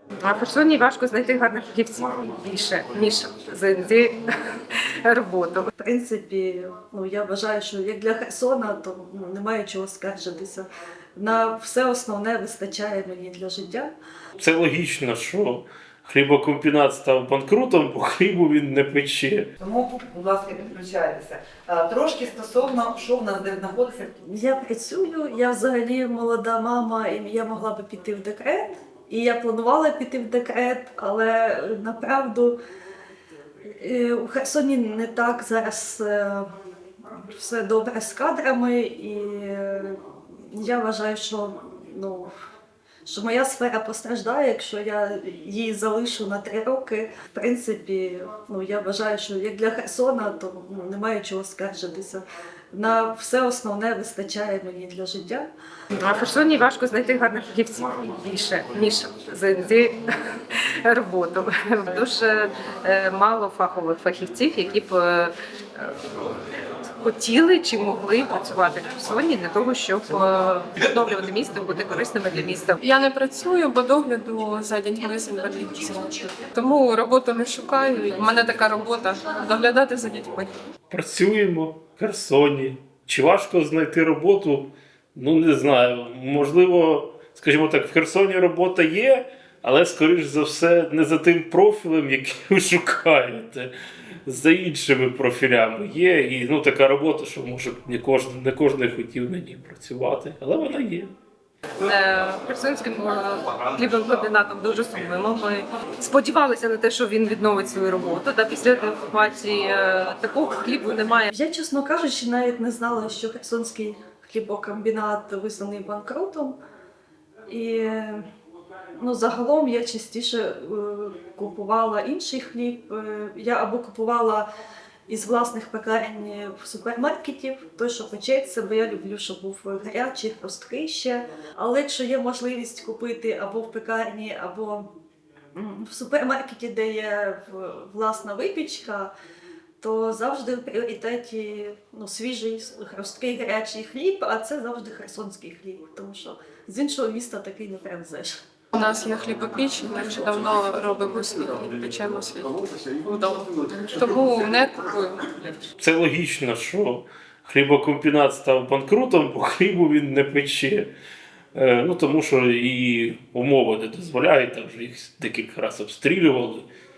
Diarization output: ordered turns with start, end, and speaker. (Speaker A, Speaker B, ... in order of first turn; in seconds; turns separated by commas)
Speaker A: 0.2-5.7, Speaker B: 5.8-13.9, Speaker C: 14.4-19.5, Speaker D: 19.6-24.1, Speaker B: 24.3-32.6, Speaker B: 33.7-36.5, Speaker B: 37.1-42.3, Speaker B: 43.1-52.2, Speaker B: 52.7-55.5, Speaker A: 56.0-66.0, Speaker A: 66.8-72.8, Speaker E: 72.8-80.5, Speaker C: 80.9-93.7, Speaker C: 94.3-101.1, Speaker A: 101.8-111.3, Speaker B: 111.3-116.6, Speaker B: 117.5-118.3, Speaker B: 119.0-124.5, Speaker B: 125.1-134.9, Speaker B: 135.6-139.1, Speaker B: 139.8-148.4, Speaker E: 148.7-155.6, Speaker C: 155.8-160.9, Speaker C: 161.6-166.7